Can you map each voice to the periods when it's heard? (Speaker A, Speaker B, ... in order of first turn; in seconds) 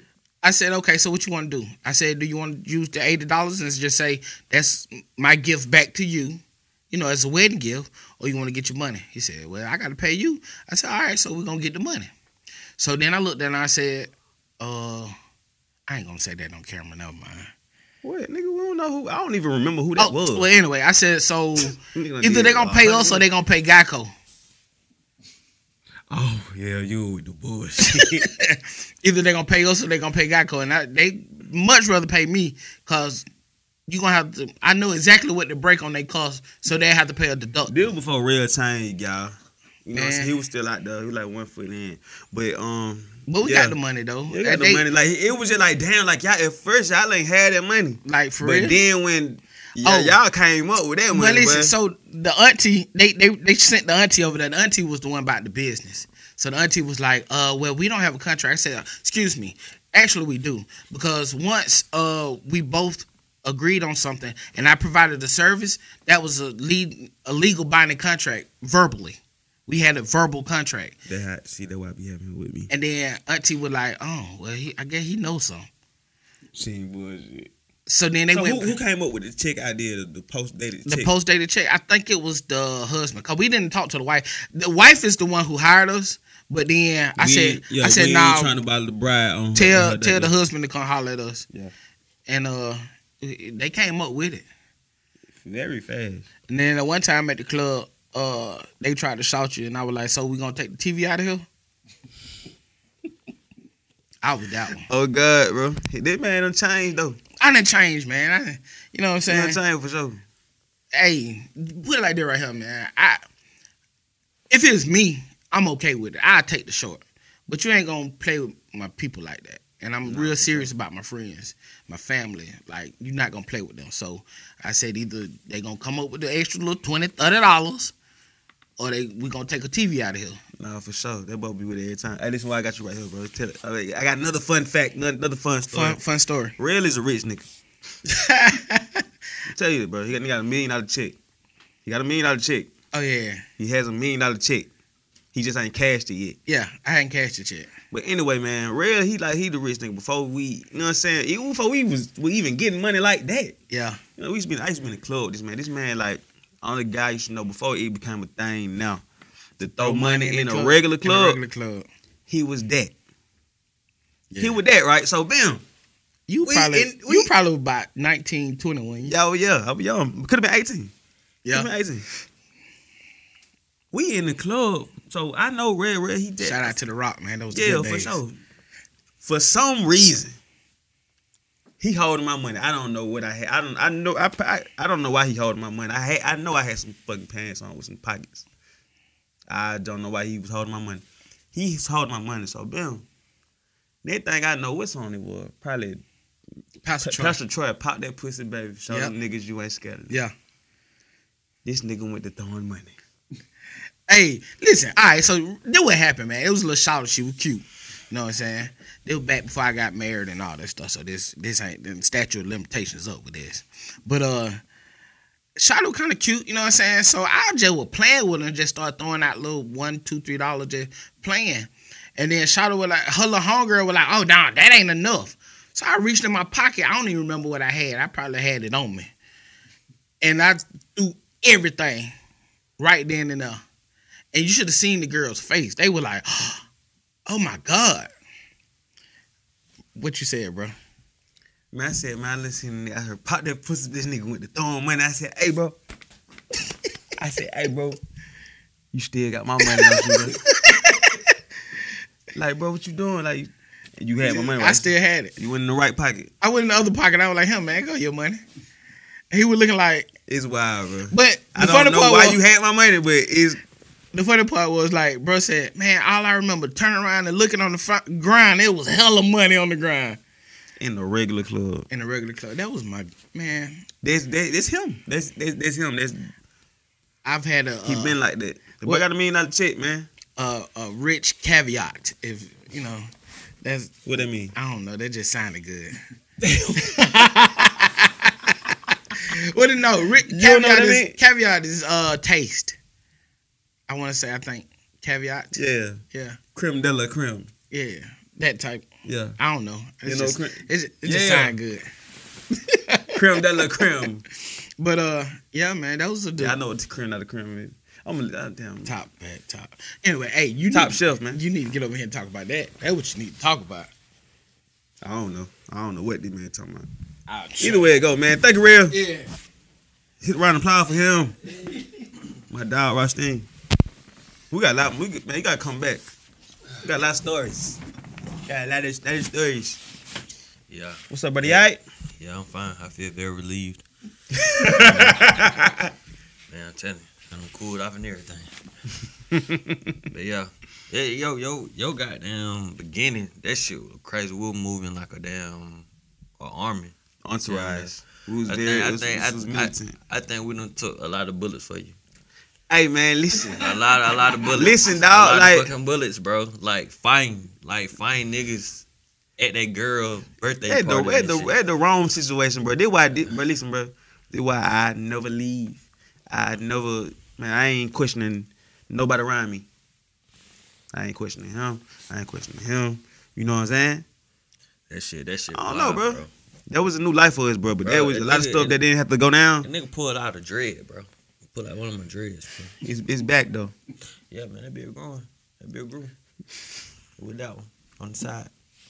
Speaker A: 0.4-12.1, 12.8-15.1, 15.9-17.5, 20.0-24.1, 27.8-33.2, 33.9-37.9, 39.9-40.3, 43.3-44.9, 48.0-48.8, 49.8-50.1, 51.1-70.9, 72.7-75.7, 77.9-78.8, 80.8-88.5, 89.5-91.5, 92.3-94.4, 96.5-101.4, 104.2-104.8, 107.4-109.6, 110.9-113.2, 114.5-127.9, 128.8-130.4, 135.7-136.6, 138.1-139.0, 142.9-143.4, 146.5-147.7, 153.7-154.0, 159.8-161.9, 164.3-164.6, 166.3-169.2, 176.4-178.2, 196.8-197.4, 204.1-214.6, 215.6-229.1, 230.2-232.1, 232.8-233.6, 234.3-236.6, 237.3-238.1, 239.9-240.7, 249.7-251.2, 254.2-255.3, 256.4-258.4, 259.3-260.1, 261.1-262.4, 264.1-270.2, 271.9-273.8, 277.2-278.2, 280.4-283.1, 283.6-283.9, 284.5-286.0, 286.6-292.8, 293.9-296.4, 297.7-298.9, 299.4-301.9, 302.6-303.2, 304.8-306.6, 308.8-313.9, 317.3-317.9, 318.9-319.3
Speaker B: 18.0-20.5, 21.6-23.3, 26.1-28.3, 37.7-43.8, 44.3-51.7, 71.1-72.7, 76.5-77.5, 78.3-81.1, 87.2-90.3, 95.4-96.3, 104.9-107.2, 109.2-110.2, 120.0-120.7, 130.6-136.0, 136.6-137.5, 139.5-141.2, 141.8-142.7, 143.6-144.7, 145.3-146.4, 147.9-153.6, 154.2-159.0, 159.6-161.4, 162.3-162.9, 164.4-165.6, 166.4-167.3, 169.0-170.9, 171.5-172.0, 173.9-176.7, 177.5-178.4, 179.2-180.4, 181.8-188.4, 189.5-193.0, 194.0-196.0, 197.0-200.2, 201.6-202.9, 241.7-245.8, 247.2-248.0, 248.9-250.4, 252.3-256.3, 260.3-263.6, 270.8-271.9, 274.0-276.3, 277.8-280.1, 284.0-284.5, 286.4-286.8, 290.2-291.2, 295.5-296.0, 296.5-297.5, 299.0-299.4, 300.0-301.5, 303.1-304.2, 306.4-308.9, 310.7-311.4, 315.0-316.9, 317.6-319.0, 320.2-321.4, 322.5-323.5, 324.5-326.1, 326.8-327.8, 328.4-329.8, 331.1-331.8, 334.4-335.9, 339.3-339.9, 347.2-349.9, 352.7-353.6, 354.5-355.7, 360.7-369.6, 370.9-374.0, 375.5-379.7, 382.8-383.7
Speaker C: 330.7-331.6, 332.2-333.8, 334.7-335.4, 336.5-338.5, 340.1-345.9, 346.4-346.9, 347.4-352.0, 353.6-358.8, 359.4-361.5, 374.9-376.3, 377.8-378.8, 379.6-382.7, 384.3-386.1, 387.2-388.5